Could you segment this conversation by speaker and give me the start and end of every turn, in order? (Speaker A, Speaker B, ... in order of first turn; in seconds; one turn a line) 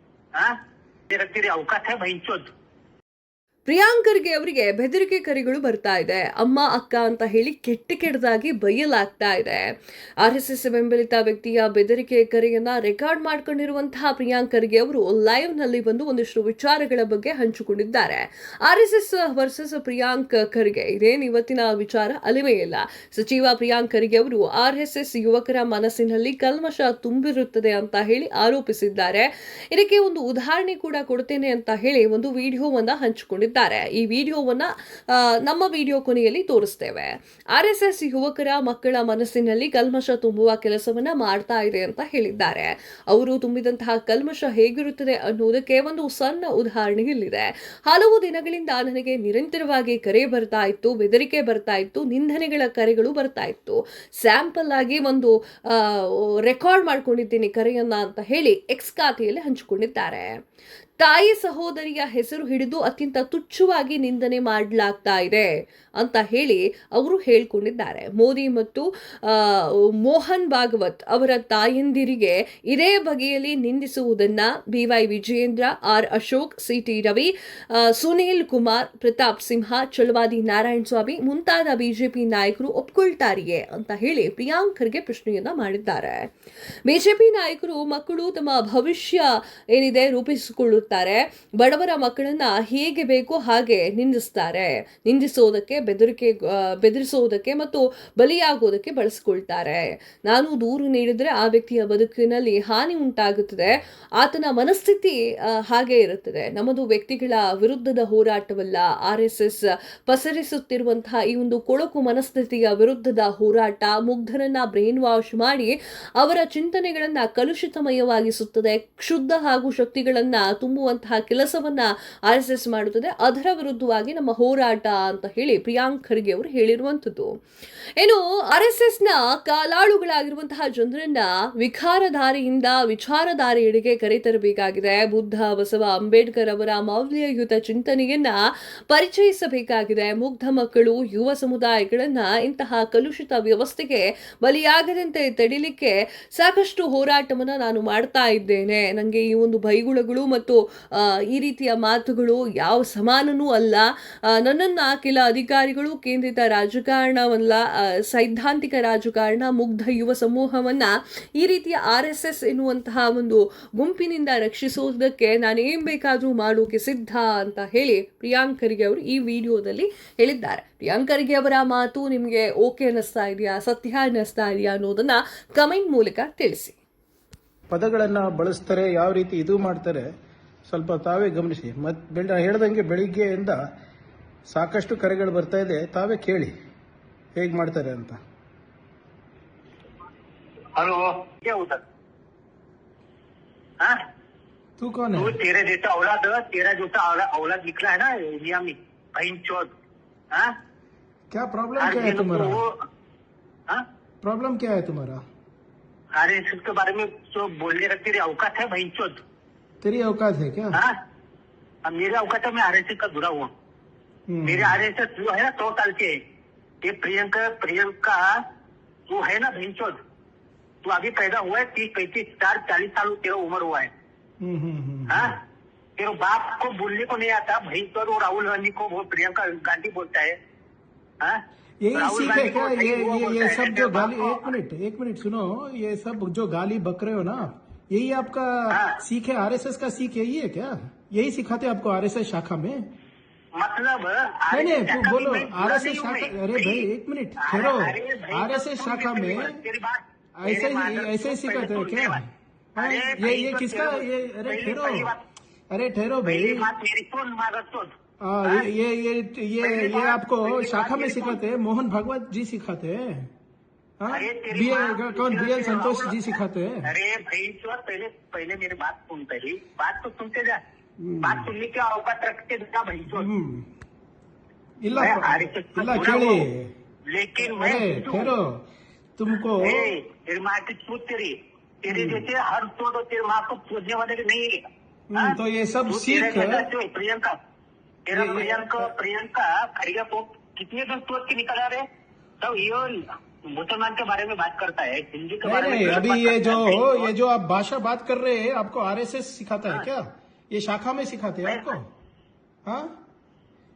Speaker A: 1.1-2.5
Speaker B: 3.7-60.4
Speaker B: 61.0-86.3
Speaker B: 86.9-105.2
Speaker B: 105.7-127.3
Speaker B: 128.0-176.8
Speaker C: 177.7-180.1
Speaker C: 180.7-183.6
Speaker C: 184.5-186.5
Speaker C: 187.3-188.2
Speaker A: 190.7-191.8
Speaker C: 194.8-195.4
Speaker A: 195.1-199.7
Speaker C: 201.3-202.6
Speaker A: 201.8-202.8
Speaker C: 204.2-205.2
Speaker A: 206.1-209.2
Speaker C: 209.8-210.8
Speaker A: 211.8-213.5
Speaker C: 214.3-214.8
Speaker A: 214.4-216.2
Speaker A: 216.8-218.4
Speaker A: 219.1-220.0
Speaker A: 220.8-223.9
Speaker C: 224.4-225.3
Speaker A: 225.1-225.4
Speaker A: 226.0-230.3
Speaker C: 231.8-242.9
Speaker A: 231.9-234.5
Speaker A: 238.7-239.0
Speaker A: 243.6-246.9
Speaker C: 244.5-249.6
Speaker A: 247.4-252.2
Speaker C: 250.3-255.1
Speaker A: 252.8-255.2
Speaker C: 255.7-256.7
Speaker A: 256.2-257.9
Speaker C: 258.2-263.3
Speaker A: 259.6-261.4
Speaker C: 264.0-266.9
Speaker A: 264.1-270.6
Speaker C: 271.0-271.5
Speaker A: 271.2-273.3
Speaker C: 273.1-273.7
Speaker C: 274.8-276.7
Speaker A: 274.9-276.5
Speaker A: 277.1-278.3
Speaker C: 277.4-278.6
Speaker C: 279.2-279.9
Speaker A: 279.6-285.4
Speaker C: 281.9-282.2
Speaker C: 285.1-286.7
Speaker A: 285.9-287.4
Speaker A: 288.1-291.9
Speaker C: 288.1-288.9
Speaker A: 292.4-297.1
Speaker C: 295.4-301.9
Speaker A: 301.4-301.7
Speaker C: 302.6-302.9